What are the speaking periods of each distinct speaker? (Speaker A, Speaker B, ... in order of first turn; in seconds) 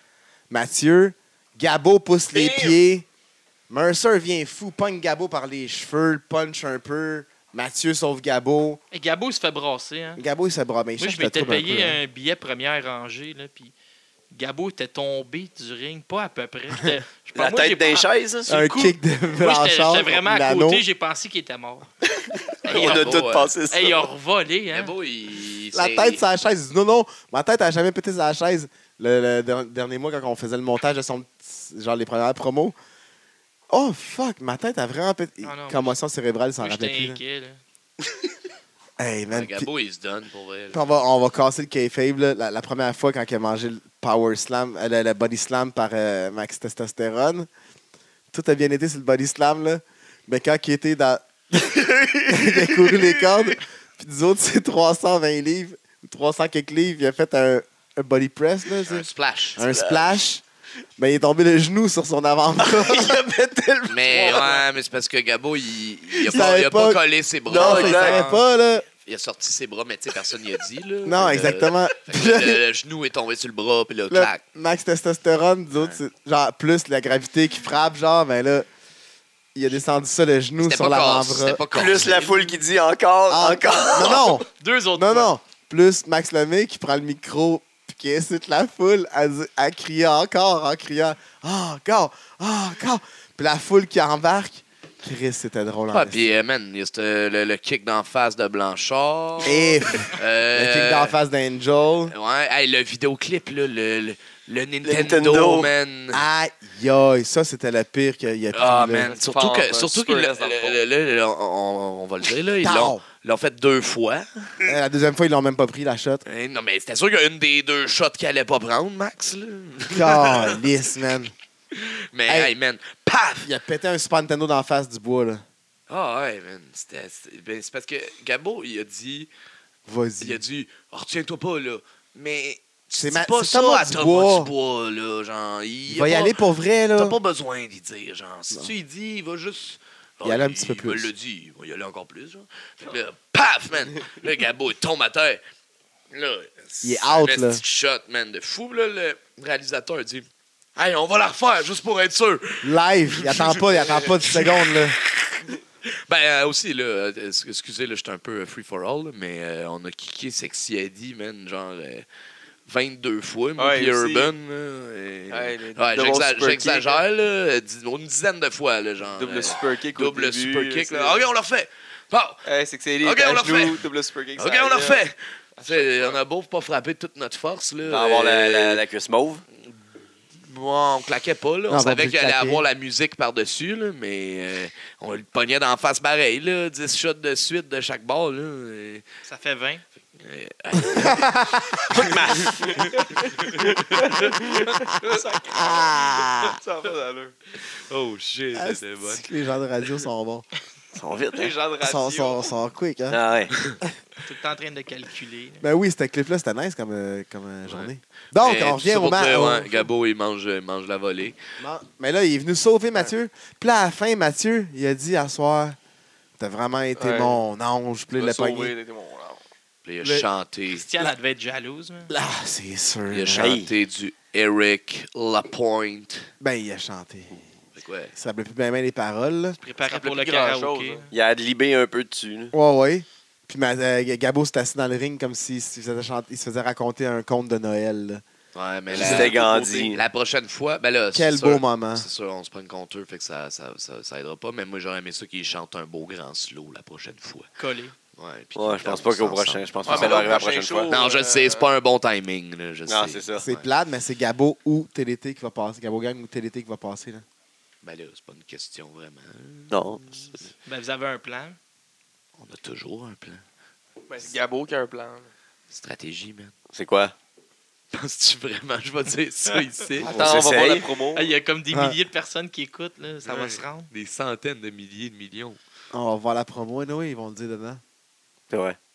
Speaker A: 0.5-3.0, 3.7-8.8, 10.2-12.0, 18.5-20.8, 25.7-32.7, 33.7-37.2, 39.0-39.7, 40.7-47.5, 48.3-51.7, 52.2-60.4, 61.0-64.5, 66.2-68.8, 71.0-72.6, 74.1-78.7, 79.5-81.6, 83.3-96.3, 99.4-102.1, 106.1-109.1, 112.6-113.0, 114.6-116.2, 119.9-121.3, 122.3-122.5, 123.4-125.4, 129.8-130.4, 133.0-134.5, 135.9-137.2, 140.2-141.1, 146.8-147.6, 152.6-155.0, 181.7-182.6, 190.8-191.8, 195.4-196.6, 198.5-200.4, 201.8-203.2, 205.6-209.9, 211.6-215.8, 216.4-218.7, 222.1-223.6, 226.4-227.4, 228.1-229.6, 232.5-238.2, 241.1-242.1, 253.4-257.2, 275.9-277.8
Speaker B: 2.3-2.8, 17.3-18.5, 22.6-24.0, 51.5-53.2, 59.7-60.0, 62.6-63.2, 67.5-68.2, 81.7-84.4, 104.8-105.7, 177.8-179.4, 191.9-192.8, 200.9-201.5, 203.1-203.5, 223.3-223.7, 231.1-232.5, 238.9-240.0, 248.6-250.9, 252.9-253.4, 259.7-260.4, 266.7-267.1, 270.1-270.9, 278.5-278.8
Speaker C: 8.9-10.2, 11.0-13.7, 14.3-21.9, 22.6-24.9, 35.4-35.9, 36.6-37.6, 84.5-85.3, 189.2-189.8, 204.2-205.6, 220.7-222.1, 229.6-231.1, 247.6-247.9, 260.6-261.6, 271.1-273.9
Speaker D: 22.6-23.5, 24.7-26.2, 39.3-40.9, 58.9-59.7, 63.9-68.4, 69.0-74.4, 80.6-82.3, 95.9-101.2, 102.1-106.2, 108.5-114.7, 116.2-120.6, 121.7-123.5, 125.9-129.3, 130.2-136.3, 136.9-145.4, 146.1-162.1, 162.7-172.4, 173.0-178.8, 180.4-189.0, 190.2-191.3, 191.9-194.9, 197.6-199.2, 203.5-203.8, 207.7-211.4, 219.8-220.8, 223.1-226.3, 227.7-228.1, 238.5-247.5, 248.2-253.7, 257.8-260.3, 262.4-263.4, 265.7-266.5, 267.9-270.4, 273.2-275.6
Speaker E: 109.0-110.8, 163.6-164.3, 165.3-167.0, 169.2-171.3, 172.4-175.0, 175.6-176.2, 192.6-197.3, 201.3-202.5, 217.0-217.4, 218.1-219.4, 229.8-231.1, 239.0-240.0, 249.8-251.7, 264.1-265.3, 270.0-271.3